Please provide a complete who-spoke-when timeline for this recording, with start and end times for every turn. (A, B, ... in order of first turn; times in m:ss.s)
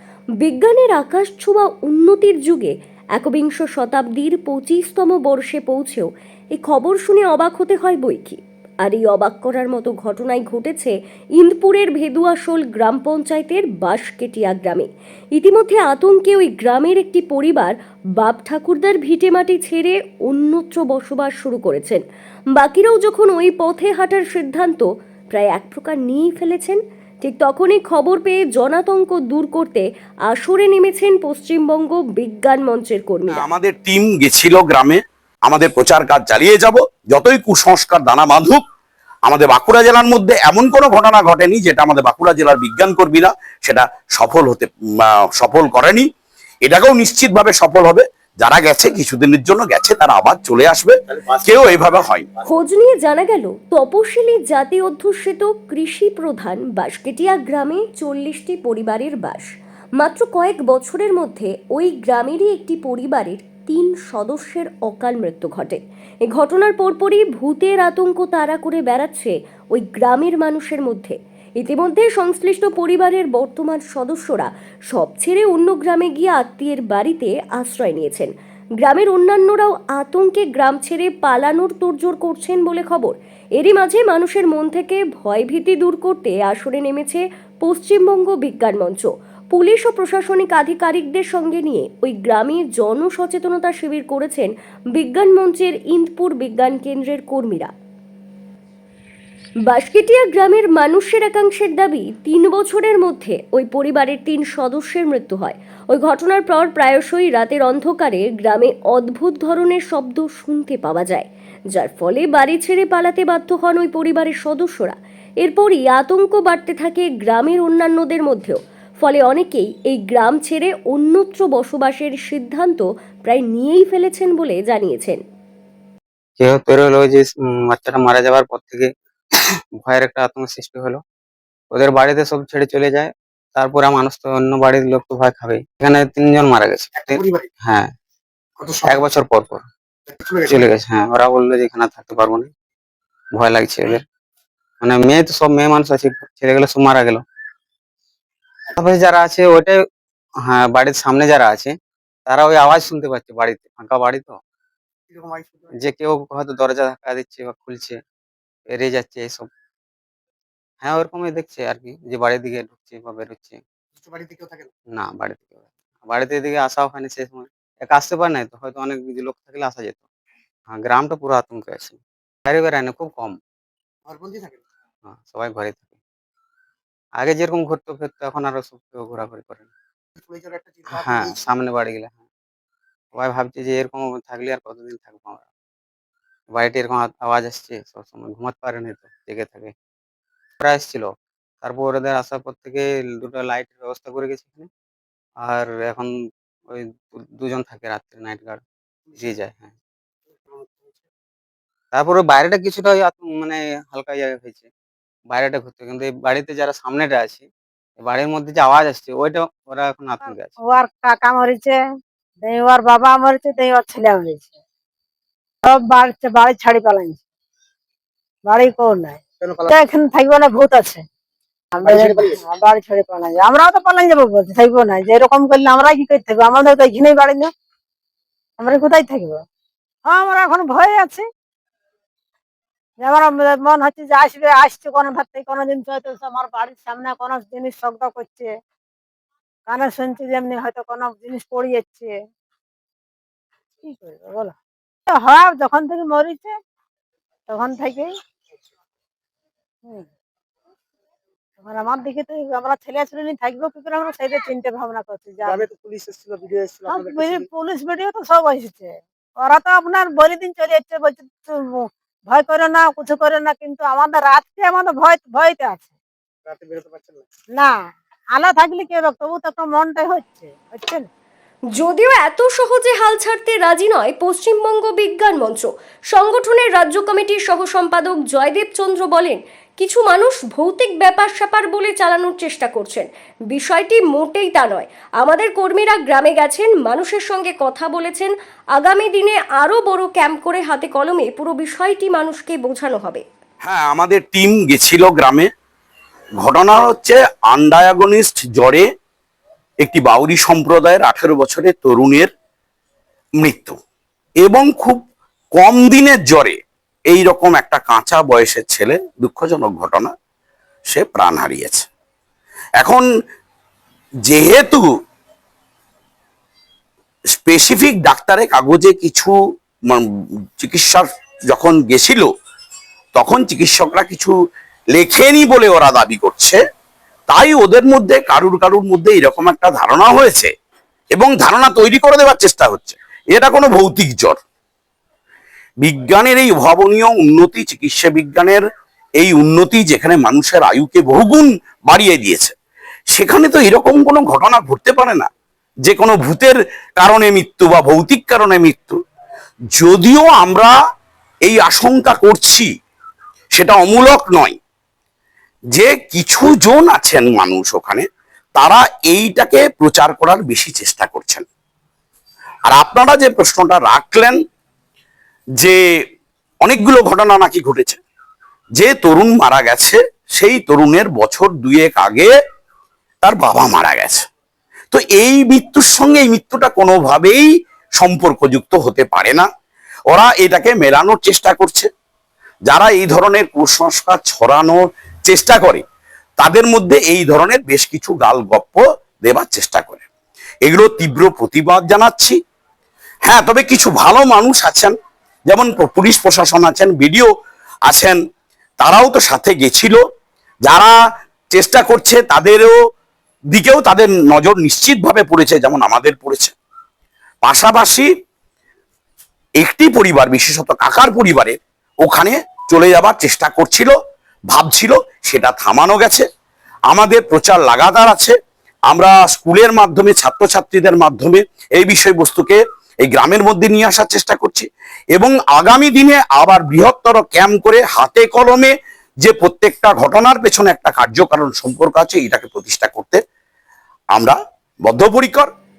0:00.4-0:22.0 A
0:22.6-0:33.4 A
0:33.3-0:38.6 B
0:39.2-0:46.0 B
0:46.6-0:52.3 B
0:52.4-0:59.5 A
1:00.0-1:37.7 A
1:39.6-2:05.2 A
2:06.4-2:08.9 C
2:09.8-2:11.0 C
2:11.7-2:17.9 C
2:17.0-2:17.5 D
2:18.6-2:19.1 D
2:18.8-2:19.6 C
2:20.1-2:20.7 D
2:20.4-2:22.5 C
2:23.3-2:24.0 C
2:24.8-2:27.2 C
2:28.8-2:29.8 C
2:30.4-2:31.7 C
2:32.3-2:34.4 C
2:35.1-2:35.7 D
2:35.8-2:37.9 C
2:38.7-2:39.5 C
2:40.8-2:43.6 C
2:44.0-2:44.7 D
2:44.9-2:50.0 C
2:50.7-2:53.4 C
2:54.1-2:54.6 D
2:55.0-2:55.9 C
2:57.2-2:59.7 C
3:00.2-3:01.4 D
3:00.9-3:02.2 C
3:03.1-3:05.4 C
3:06.5-3:09.7 C
3:10.6-3:11.1 C
3:11.6-3:14.7 C
3:15.4-3:16.1 C
3:16.7-3:18.6 C
3:19.2-3:19.7 C
3:20.4-3:21.1 D
3:21.9-3:24.7 C
3:25.3-3:27.5 C
3:28.0-3:30.5 C
3:30.2-3:31.8 E
3:32.4-3:34.6 E
3:35.6-3:37.2 E
3:38.4-3:41.0 E
3:39.4-3:39.8 D
3:41.7-3:47.5 E
3:41.8-3:42.4 D
3:48.6-3:49.4 E
3:50.1-3:51.2 E
3:53.0-3:58.5 E
3:59.7-4:02.1 E
4:03.8-4:04.5 E
4:05.1-4:06.5 E
4:07.5-4:08.1 E
4:11.6-4:15.6 E
4:15.4-4:17.5 D
4:16.9-4:25.9 E
4:26.4-4:27.2 D
4:28.4-4:31.1 E
4:31.7-4:53.2 A
4:53.6-4:55.5 B
4:56.4-4:58.8 B
4:59.8-5:02.3 B
5:03.4-5:03.8 B
5:04.4-5:05.0 B
5:05.5-5:06.6 B
5:07.1-5:10.1 B
5:10.9-5:11.8 B
5:12.8-5:13.0 B
5:14.3-5:14.9 B
5:17.4-5:19.4 B
5:20.6-5:22.3 B
5:23.1-5:24.3 B
5:24.9-5:26.6 B
5:27.3-5:30.5 B
5:31.1-5:34.4 B
5:35.8-5:38.6 B
5:39.2-5:42.5 B
5:43.1-5:45.3 B
5:45.8-5:49.0 B
5:49.8-5:50.7 B
5:51.4-5:52.7 B
5:53.5-5:54.6 B
5:55.7-5:58.0 B
5:58.6-6:01.5 B
6:02.7-6:04.4 B
6:06.6-6:08.0 B
6:08.8-6:12.3 B
6:13.2-6:14.2 B
6:14.9-6:19.4 B
6:20.1-6:21.9 B
6:22.7-6:25.8 B
6:26.4-6:30.0 B
6:30.6-6:32.4 B
6:33.2-6:34.9 B
6:35.5-6:37.3 B
6:37.8-6:38.2 B
6:38.8-6:40.0 B
6:40.6-6:40.9 B
6:41.5-6:42.8 B
6:43.5-6:46.5 B
6:47.4-6:48.1 B
6:49.6-6:53.9 B
6:54.5-6:56.2 B
6:56.9-6:58.3 B
6:58.9-7:08.7 B
7:09.2-7:13.2 B
7:14.1-7:15.5 B